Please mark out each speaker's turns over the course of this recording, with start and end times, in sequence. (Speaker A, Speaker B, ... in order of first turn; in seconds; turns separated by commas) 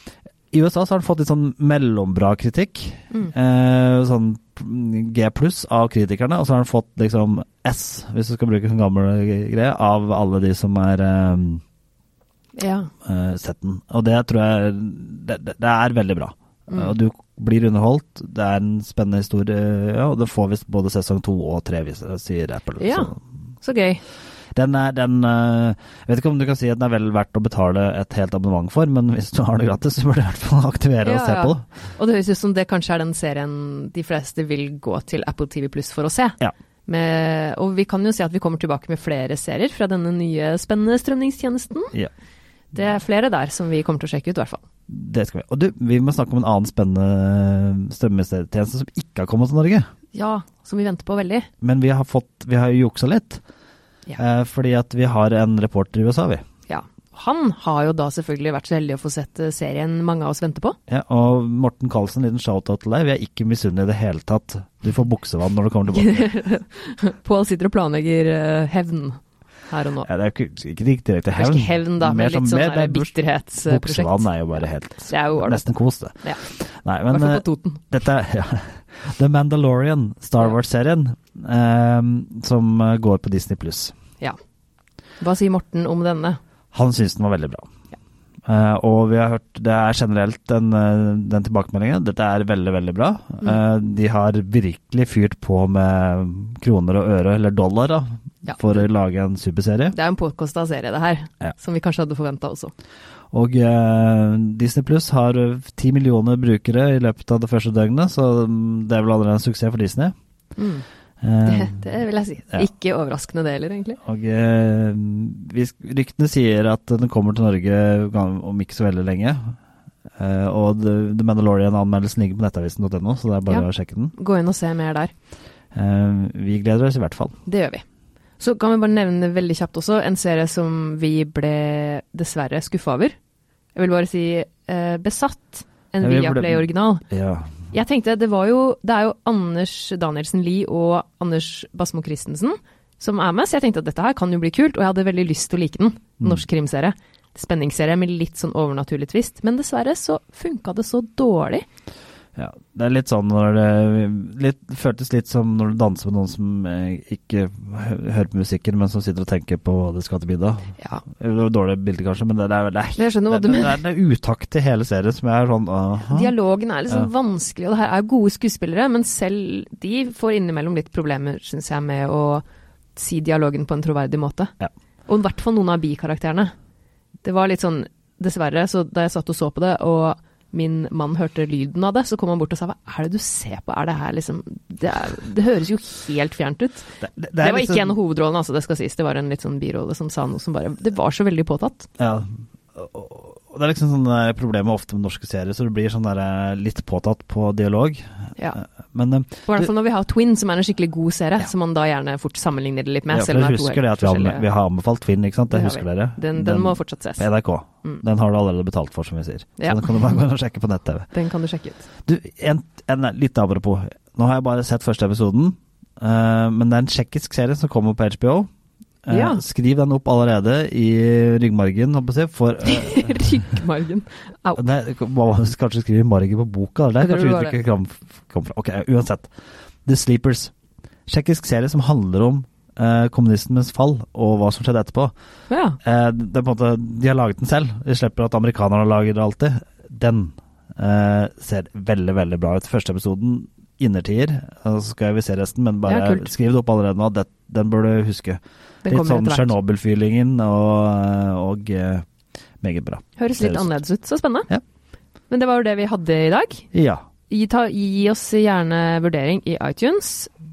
Speaker A: 0.5-11.6, Speaker B: 12.6-12.9, Speaker A: 13.0-23.2, Speaker B: 22.8-24.0, Speaker A: 24.5-31.6, Speaker B: 31.0-41.9, Speaker B: 42.7-44.6, Speaker A: 44.9-49.9, Speaker B: 50.1-51.5, Speaker A: 51.6-53.4, Speaker A: 54.2-56.4, Speaker B: 56.7-60.8, Speaker A: 60.9-66.3, Speaker B: 66.0-70.1, Speaker A: 70.0-83.9, Speaker B: 71.3-74.3, Speaker B: 75.1-75.7, Speaker B: 77.1-77.8, Speaker B: 85.2-86.4, Speaker A: 86.7-87.7, Speaker A: 88.5-100.0, Speaker B: 98.5-98.8, Speaker B: 99.9-102.7, Speaker A: 103.3-110.1, Speaker B: 110.5-110.8, Speaker A: 111.2-111.9, Speaker B: 111.5-114.0, Speaker A: 114.0-119.6, Speaker A: 120.2-124.1, Speaker B: 123.5-125.1, Speaker A: 125.7-127.3, Speaker B: 127.5-127.8, Speaker B: 128.4-133.1, Speaker B: 133.8-137.0, Speaker A: 136.0-137.5, Speaker B: 137.7-151.6, Speaker A: 152.3-166.3, Speaker B: 163.0-163.8, Speaker B: 166.1-172.4, Speaker B: 172.9-174.5, Speaker B: 175.1-176.5, Speaker B: 177.2-191.9, Speaker A: 187.0-188.0, Speaker A: 192.0-199.7, Speaker B: 199.5-204.4, Speaker A: 203.1-211.1, Speaker B: 205.5-207.3, Speaker B: 209.6-210.2, Speaker B: 211.1-211.9, Speaker A: 212.1-218.5, Speaker A: 219.0-223.3, Speaker B: 219.1-219.4, Speaker B: 222.6-224.6, Speaker A: 224.6-229.3, Speaker B: 227.0-227.6, Speaker A: 229.8-230.5, Speaker A: 231.1-235.1, Speaker B: 235.5-235.8, Speaker A: 235.8-252.1, Speaker B: 245.8-246.3, Speaker B: 248.8-249.5, Speaker A: 252.6-253.8, Speaker B: 253.2-254.5, Speaker B: 255.3-256.6, Speaker A: 256.7-257.0, Speaker B: 257.3-260.3